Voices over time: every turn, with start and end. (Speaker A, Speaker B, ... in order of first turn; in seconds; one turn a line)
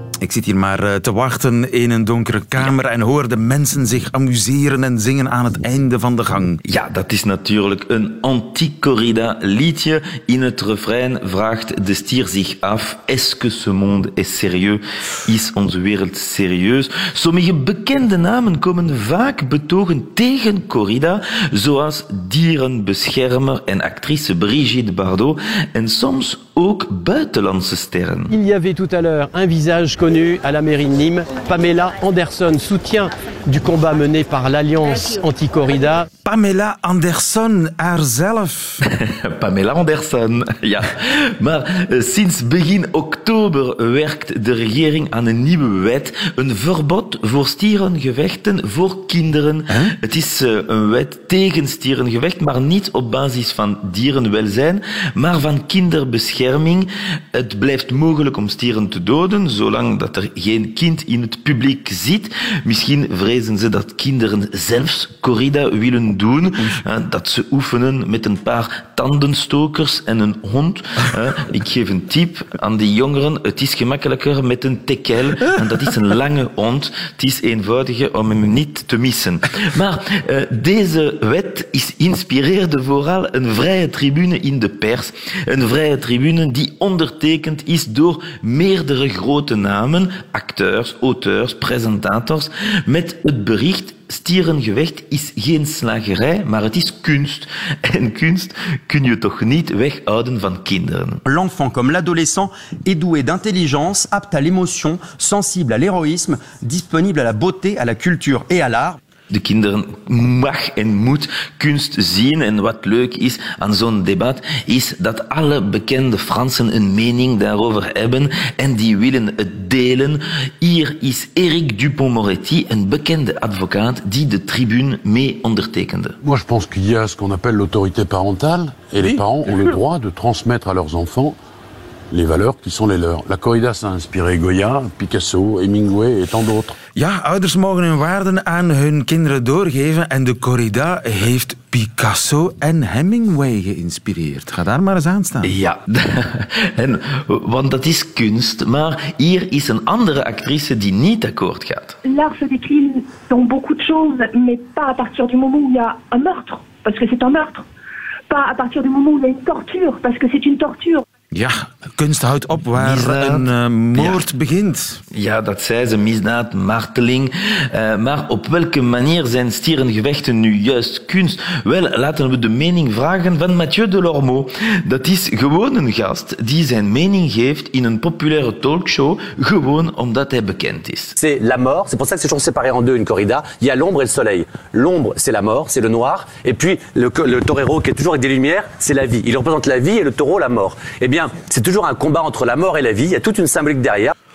Speaker A: 0.2-6.6
Speaker B: 6.7-28.3
Speaker C: 28.3-36.0
Speaker A: 36.2-38.8
Speaker B: 38.9-101.2
Speaker A: 49.7-49.9
Speaker D: 101.2-109.0
Speaker B: 109.3-126.2
Speaker E: 126.2-131.4
Speaker E: 132.1-136.8
Speaker A: 136.9-145.6
Speaker B: 145.4-152.0
Speaker F: 152.0-157.6
Speaker F: 158.3-161.0
Speaker A: 161.3-165.0
Speaker B: 162.7-164.2
Speaker B: 165.1-181.2
Speaker G: 181.2-194.1